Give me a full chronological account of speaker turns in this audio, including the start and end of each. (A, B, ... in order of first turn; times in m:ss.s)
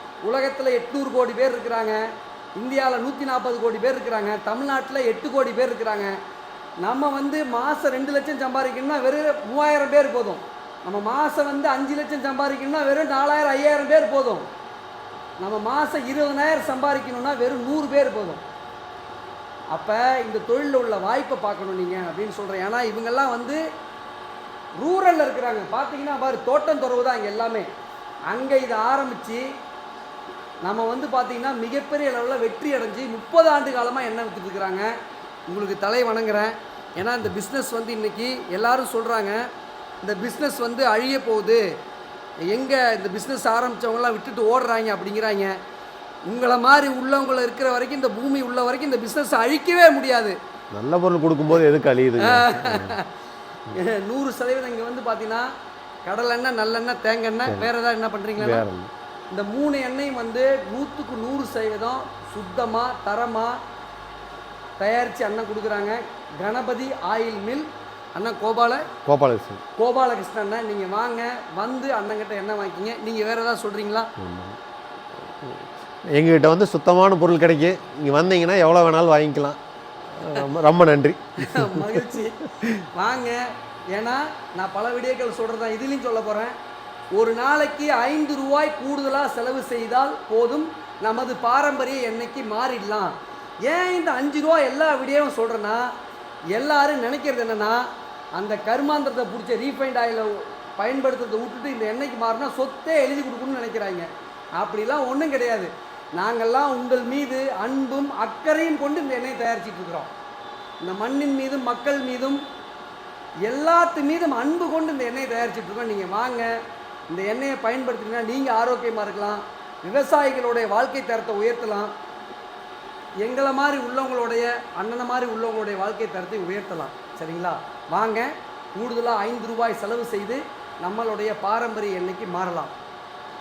0:00.2-0:02.0 A
0:02.6-0:06.1 A
0:06.8-0:14.5 A
0:15.4-0:18.4 A
0:19.7-0:23.6 A
0:24.8-0:27.7 A
0:28.3-0:29.4 A
0:30.6-0:34.9 A
0:35.5-0:39.4 A
0:40.0-0:41.6 A
0:42.5-0:45.5 A
0:46.3-0:50.4 A
0:50.7-0:53.0 B
0:52.2-0:53.1 A
0:53.7-0:55.5 A
0:56.0-0:58.6 A
0:57.5-0:57.7 B
0:58.4-0:58.9 B
0:59.3-1:03.6 A
1:04.8-1:08.9 A
1:09.0-1:09.6 B
1:09.8-1:14.1 A
1:14.2-1:14.6 B
1:15.3-1:19.6 B
1:20.2-1:22.1 B
1:21.4-1:26.5 A
1:27.1-1:33.1 A
1:33.6-1:35.9 A
1:36.5-1:50.1 A
1:50.8-1:52.4 A
1:53.4-1:56.5 A
1:57.1-2:01.9 A
2:03.2-2:12.7 A